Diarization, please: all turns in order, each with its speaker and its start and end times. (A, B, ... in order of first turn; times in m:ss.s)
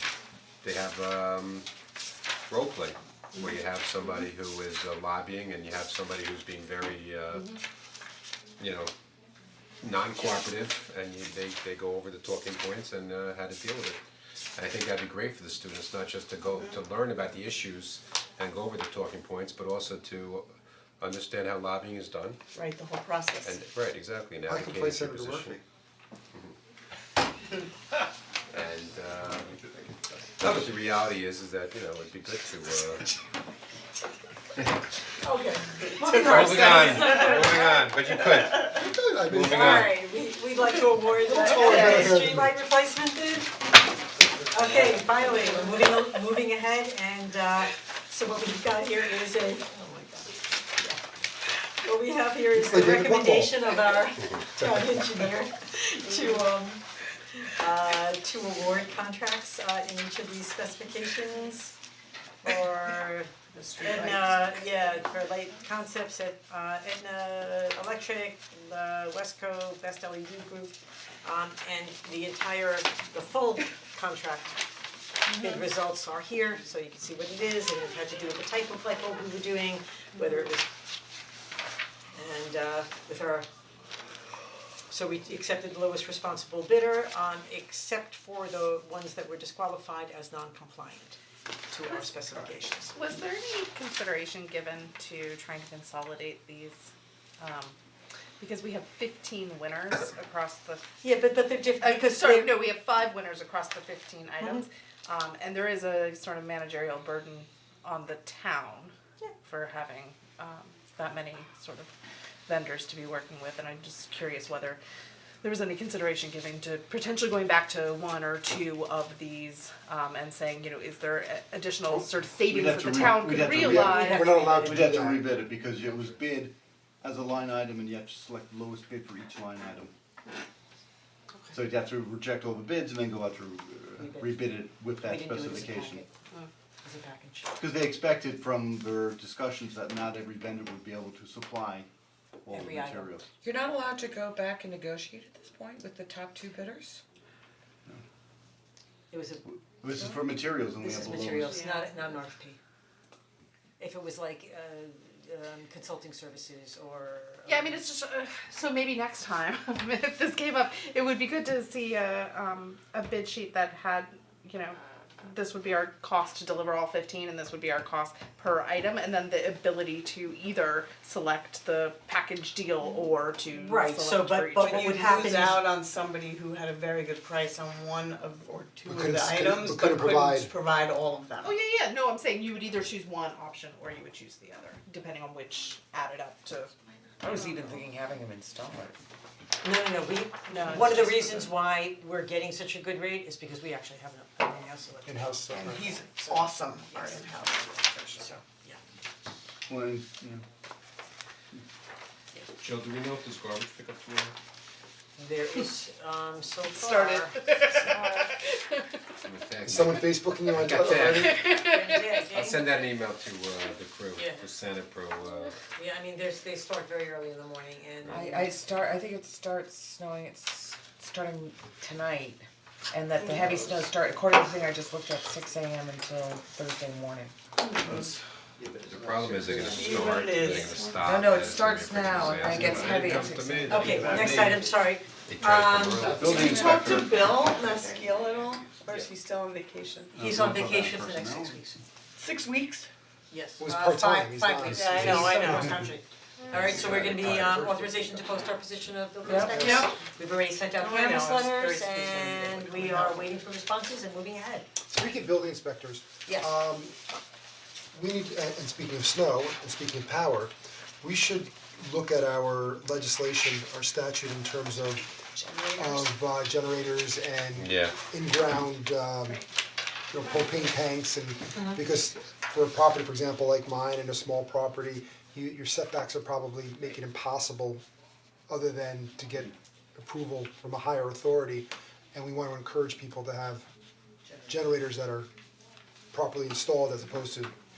0:00.6-0:01.7 A
0:02.5-0:07.5 A
0:08.6-0:08.9 A
0:09.8-0:14.0 A
0:14.6-0:20.5 A
0:16.5-0:16.8 B
0:21.0-0:22.4 A
0:22.5-0:23.6 B
0:23.4-0:25.6 A
0:24.5-0:25.6 C
0:28.5-0:29.6 A
0:30.4-0:33.1 A
0:35.2-0:37.9 D
0:36.1-0:40.0 A
0:38.6-0:40.0 C
0:39.5-0:43.5 D
0:41.1-0:42.6 C
0:44.5-0:51.0 D
0:51.8-0:56.8 D
0:52.5-0:53.6 C
0:57.4-1:01.7 D
1:02.4-1:14.6 D
1:03.5-1:04.4 B
1:15.2-1:20.7 D
1:22.1-1:23.5 D
1:24.9-1:31.2 D
1:31.7-1:33.0 D
1:32.9-1:37.8 E
1:38.4-1:40.9 E
1:41.0-1:42.7 D
1:41.8-1:51.9 E
1:52.5-1:54.8 E
1:55.4-2:04.5 E
2:02.5-2:09.9 F
2:03.5-2:05.4 C
2:04.0-2:04.8 D
2:11.5-2:16.0 F
2:14.0-2:16.1 D
2:16.8-2:17.5 D
2:17.6-2:21.9 F
2:22.4-2:23.3 F
2:22.5-2:23.2 D
2:23.4-2:27.0 G
2:29.1-2:29.4 D
2:29.5-2:31.6 F
2:30.8-2:32.6 D
2:31.4-2:31.9 E
2:33.8-2:37.8 D
2:37.5-2:55.1 E
2:53.5-2:55.6 D
2:54.6-3:01.5 B
2:58.9-3:00.6 C
3:01.4-3:06.7 E
3:07.2-3:09.0 G
3:07.3-3:07.6 E
3:09.6-3:15.4 D
3:10.5-3:11.1 E
3:15.0-3:16.0 C
3:15.7-3:18.4 B
3:15.9-3:17.3 D
3:18.2-3:18.8 D
3:19.7-3:20.4 F
3:22.6-3:24.4 A
3:25.2-3:27.4 D
3:26.7-3:28.9 E
3:29.2-3:31.7 A
3:29.7-3:31.4 C
3:31.4-3:32.1 E
3:31.7-3:32.6 D
3:32.3-3:35.6 A
3:34.2-3:34.5 D
3:35.8-3:38.5 D
3:38.0-3:38.3 A
3:38.1-3:47.3 G
3:47.6-3:48.0 B
3:47.8-3:50.1 F
3:48.8-3:54.8 A
3:49.7-3:51.0 B
3:51.0-3:54.3 G
3:53.7-3:56.4 D
3:53.7-3:54.6 F
3:55.3-3:57.0 A
3:56.0-3:57.3 F
3:56.0-4:00.1 B
4:00.1-4:01.7 F
4:00.2-4:01.8 D
4:02.2-4:02.9 B
4:03.3-4:14.7 D
4:03.6-4:05.9 C
4:04.8-4:05.8 B
4:06.5-4:07.6 A
4:06.6-4:08.4 C
4:09.2-4:09.6 G
4:09.4-4:09.9 C
4:09.6-4:09.9 B
4:10.8-4:13.3 B
4:14.9-4:17.0 C
4:16.3-4:16.6 D
4:17.9-4:25.0 C
4:25.4-4:26.0 G
4:25.7-4:29.4 C
4:27.6-4:28.0 A
4:30.1-4:37.8 C
4:38.5-4:43.7 C
4:44.3-4:44.6 D
4:44.5-4:45.3 C
4:46.1-4:47.6 C